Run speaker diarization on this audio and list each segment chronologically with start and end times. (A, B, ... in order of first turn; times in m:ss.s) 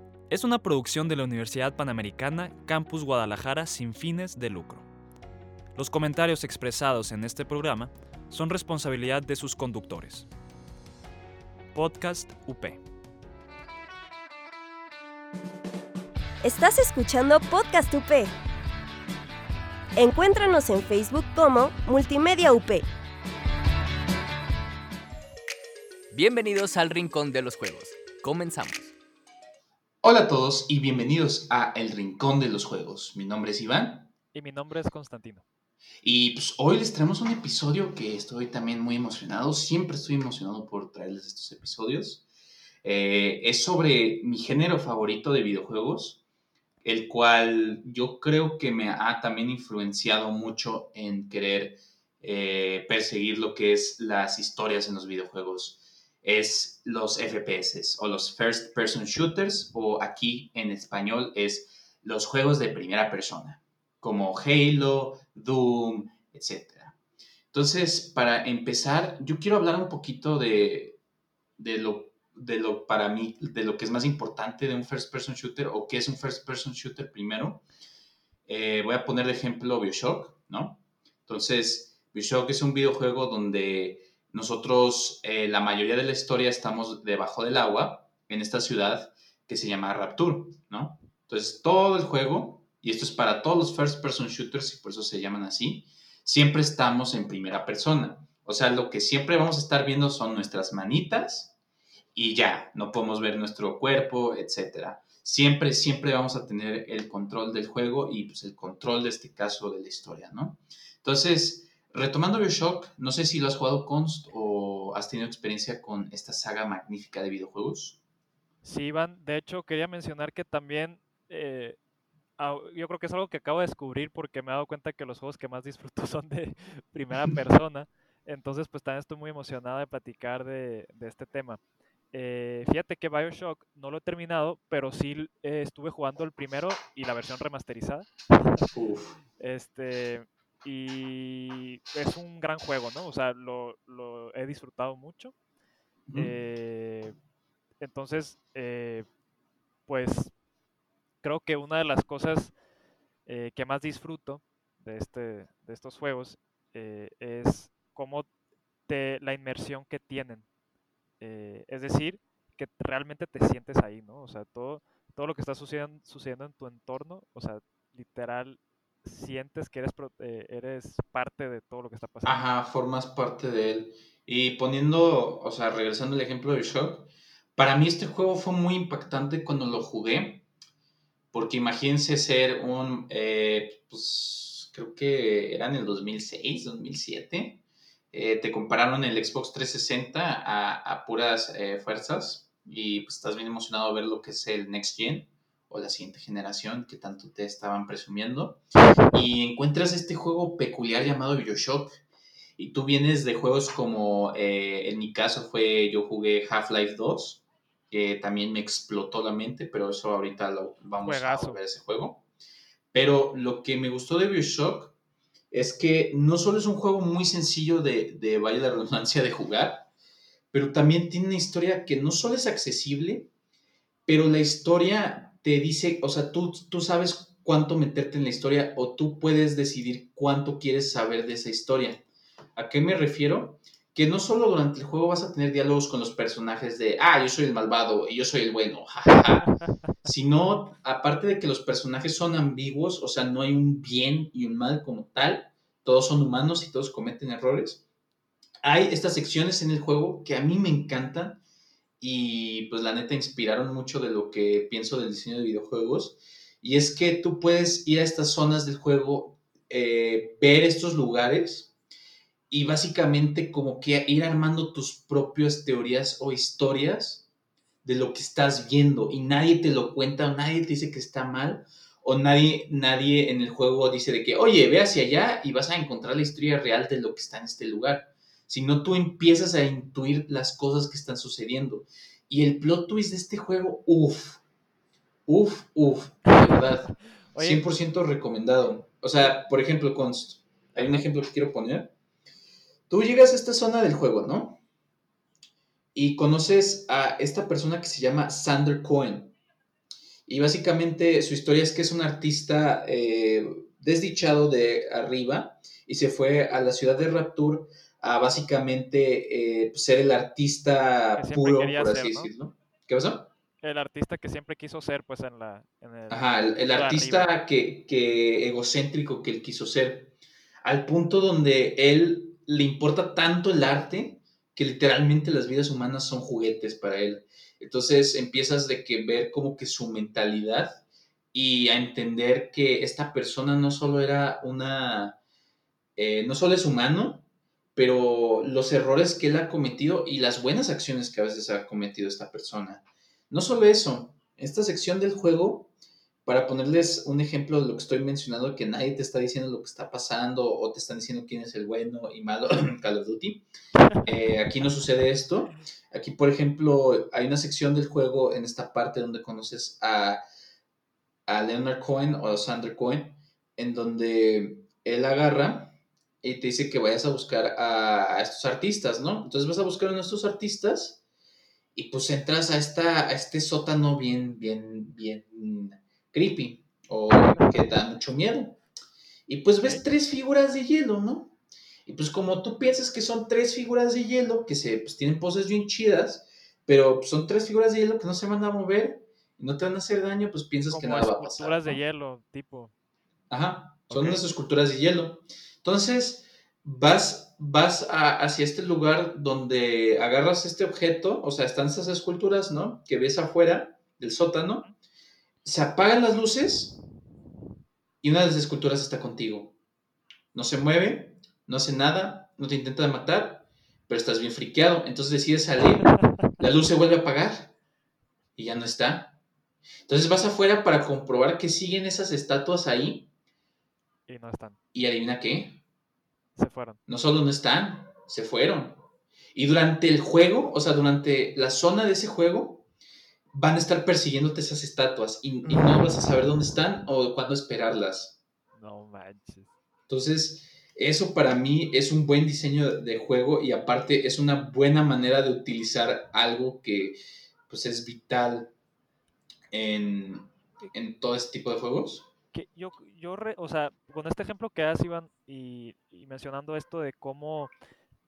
0:00.3-0:04.8 A
0:05.8-0:06.3 A
0:07.1-0:07.4 A
0:09.3-0:09.9 A
0:16.4-0:18.3 B
0:20.0-0:22.9 B
0:26.1-0:28.9 C
0:30.0-0:34.1 A
0:34.3-0:35.4 D
0:36.0-0:42.2 A
0:42.8-0:46.2 A
0:46.8-1:06.9 A
1:07.5-1:11.0 A
1:11.6-1:17.6 A
1:18.5-1:41.5 A
1:42.2-1:58.0 A
1:58.6-2:01.8 D
2:02.4-2:11.6 D
2:12.1-2:18.7 D
2:18.7-2:19.2 A
2:19.4-2:25.3 D
2:26.1-2:26.3 A
2:26.2-2:27.1 D
2:27.8-2:29.1 D
2:29.9-2:30.3 D
2:31.2-2:32.5 D
2:33.3-2:38.3 D
2:38.9-2:40.5 D
2:41.2-2:52.4 D
2:52.2-3:00.4 A
3:01.3-3:07.6 A
3:08.1-3:18.6 A
3:19.1-3:22.0 A
3:22.6-3:32.2 A
3:31.0-3:31.6 D
3:32.9-3:34.9 A
3:35.5-3:39.9 A
3:40.5-3:43.3 A
3:44.1-3:52.0 A
3:52.6-3:59.5 A
4:00.0-4:07.8 A
4:08.6-4:11.4 A
4:12.0-4:21.7 A
4:22.5-4:27.3 A
4:27.8-4:44.4 A
4:45.3-4:51.9 A
4:46.3-4:46.6 D
4:47.3-4:47.6 D
4:50.8-4:51.1 D
4:52.9-4:54.6 A
4:56.0-4:59.4 A
5:00.3-5:13.3 A
5:11.2-5:12.3 D
5:13.6-5:17.3 D
5:16.1-5:30.8 A
5:31.3-5:35.2 A
5:36.0-5:45.7 A
5:46.3-5:53.4 A
5:54.0-6:00.2 A
6:01.3-6:11.0 A
6:11.8-6:18.6 A
6:17.3-6:17.6 D
6:19.3-6:31.8 A
6:30.7-6:32.7 D
6:33.3-6:44.7 A
6:33.9-6:34.2 D
6:45.4-6:46.8 A
6:48.0-6:49.5 A
6:50.3-6:57.5 A
6:58.4-6:59.2 A
6:59.9-7:03.1 A
7:04.1-7:04.6 D
7:04.7-7:05.6 A
7:06.4-7:06.8 D
7:06.9-7:08.8 A
7:09.3-7:12.7 A
7:13.3-7:18.2 A
7:18.6-7:19.5 D
7:19.9-7:27.0 A
7:27.5-7:28.5 A
7:29.5-7:32.1 A
7:32.3-7:37.5 D